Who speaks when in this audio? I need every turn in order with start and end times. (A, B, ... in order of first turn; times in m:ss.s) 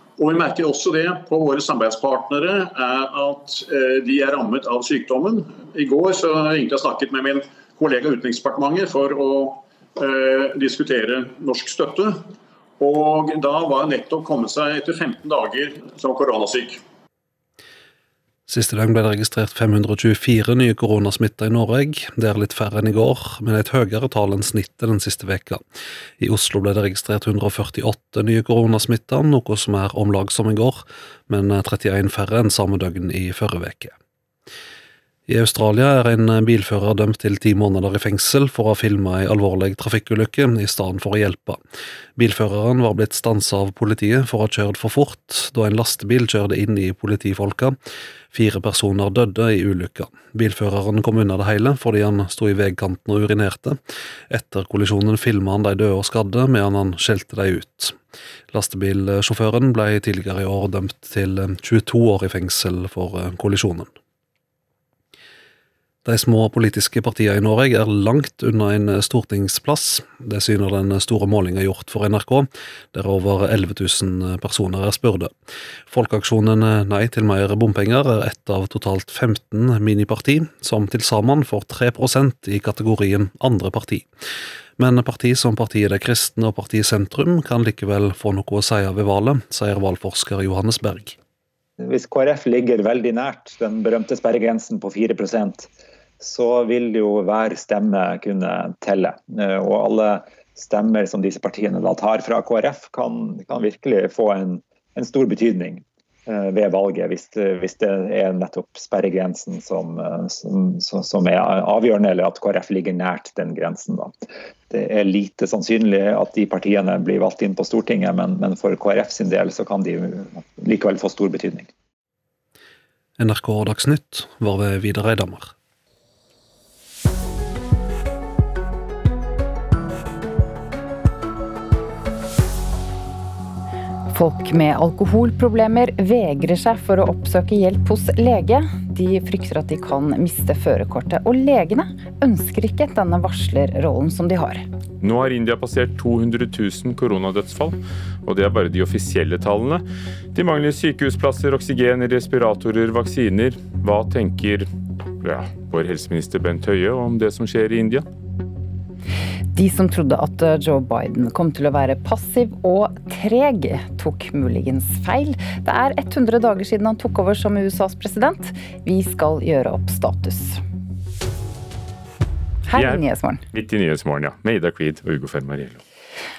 0:00.2-0:12.3 A
0:12.8-0:16.8 A
0:18.5-0:25.6 B
0:26.2-0:33.9 B
0:35.3-0:41.6 B
0:42.2-0:47.8 B
0:48.3-0:53.8 B
0:54.3-0:58.0 B
0:58.5-1:03.9 B
1:06.0-1:15.3 B
1:15.9-1:24.1 B
1:24.8-1:31.2 B
1:31.8-1:35.7 C
1:36.2-2:01.7 C
2:03.2-2:05.5 B
2:14.1-2:24.6 D
2:25.0-2:34.7 E
2:35.2-2:38.0 E
2:39.5-2:50.6 D
2:52.6-2:53.4 D
2:52.7-2:55.8 E